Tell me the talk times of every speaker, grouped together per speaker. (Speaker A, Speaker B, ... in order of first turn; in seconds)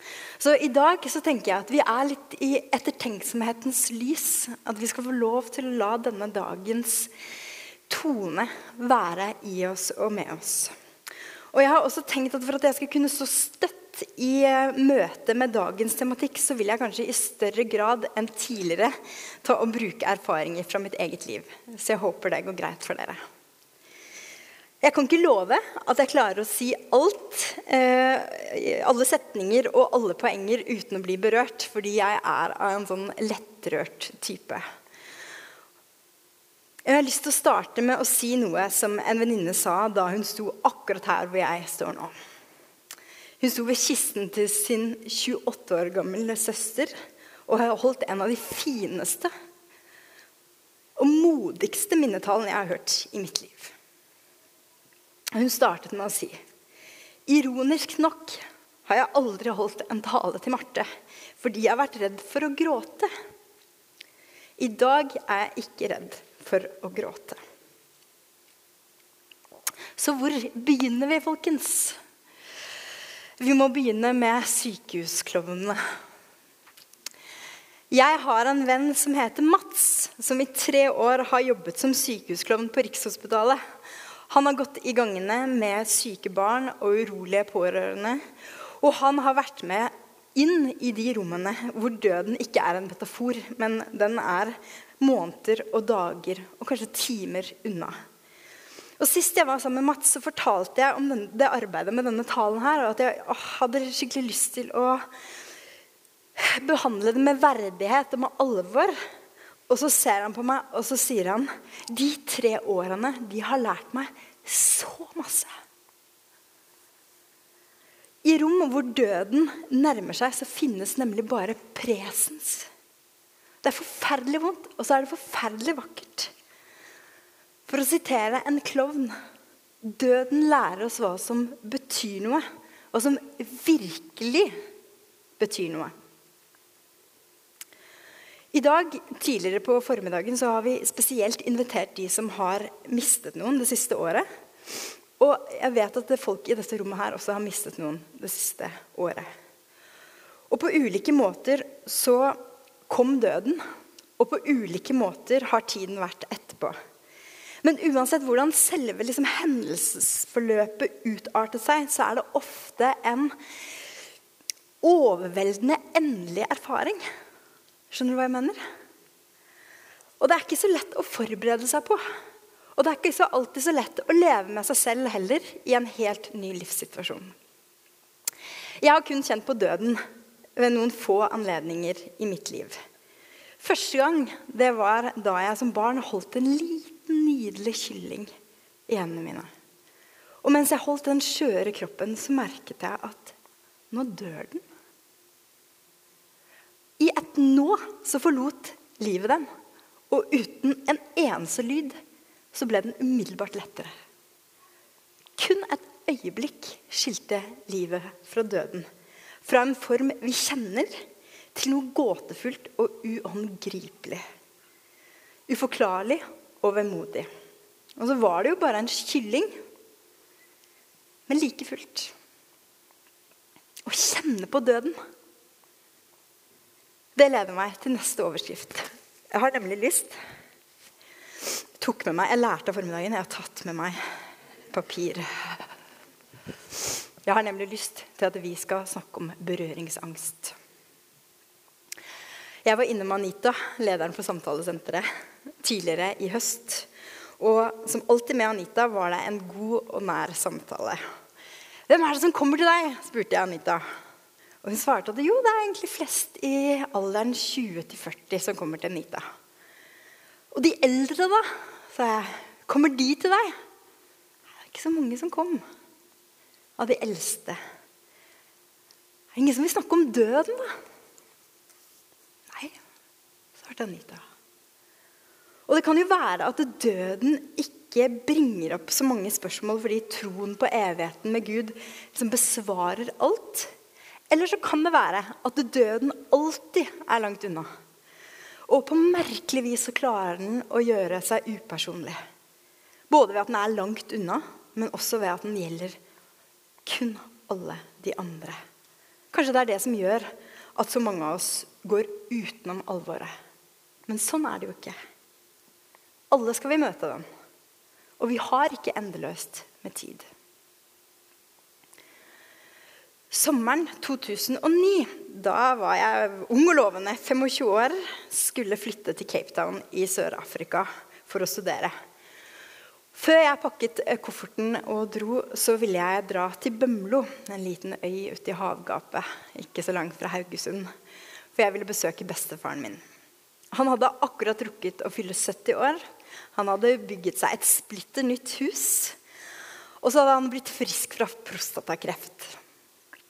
Speaker A: 0.4-7.1, 7.9-10.7, 11.5-23.2, 24.8-34.6, 36.9-42.1, 43.4-46.9, 47.5-49.3, 51.0-53.7, 55.3-56.4, 57.3-60.9, 61.4-63.1, 64.6-67.4, 70.0-72.0, 73.4-75.8, 77.9-83.6, 84.3-88.2, 88.8-97.9, 99.0-105.0, 106.4-108.9, 109.7-115.5, 118.2-122.7, 123.6-126.3, 127.7-129.1, 129.8-134.5, 135.4-135.9, 138.5-144.2, 145.2-149.2, 150.5-153.6, 154.2-156.8, 157.6-163.3, 164.8-167.0, 167.9-168.6, 170.2-172.0, 172.8-177.3, 178.8-180.0, 180.6-182.8, 183.6-188.3, 188.9-189.5, 190.4-193.3, 193.9-194.6, 197.0-199.5, 200.1-201.9, 202.5-203.9, 205.4-208.9, 209.4-210.9, 211.5-214.2, 215.5-217.3, 218.0-219.5, 221.3-222.1, 223.9-224.9, 227.2-230.1, 231.8-234.0, 234.7-235.7, 237.2-240.6, 242.6-245.1, 245.6-251.0, 251.9-253.8, 254.6-259.2, 260.5-263.5, 264.6-265.6, 266.8-267.6, 269.3-270.7, 273.6-274.2, 275.7-283.7, 284.3-287.7, 288.7-292.1, 293.1-296.0, 296.9-298.6, 299.3-303.3, 304.1-304.9, 306.3-307.2, 308.2-310.2, 313.3-321.9, 323.1-330.9, 331.6-333.0, 333.7-336.0, 336.6-339.2, 340.0-342.6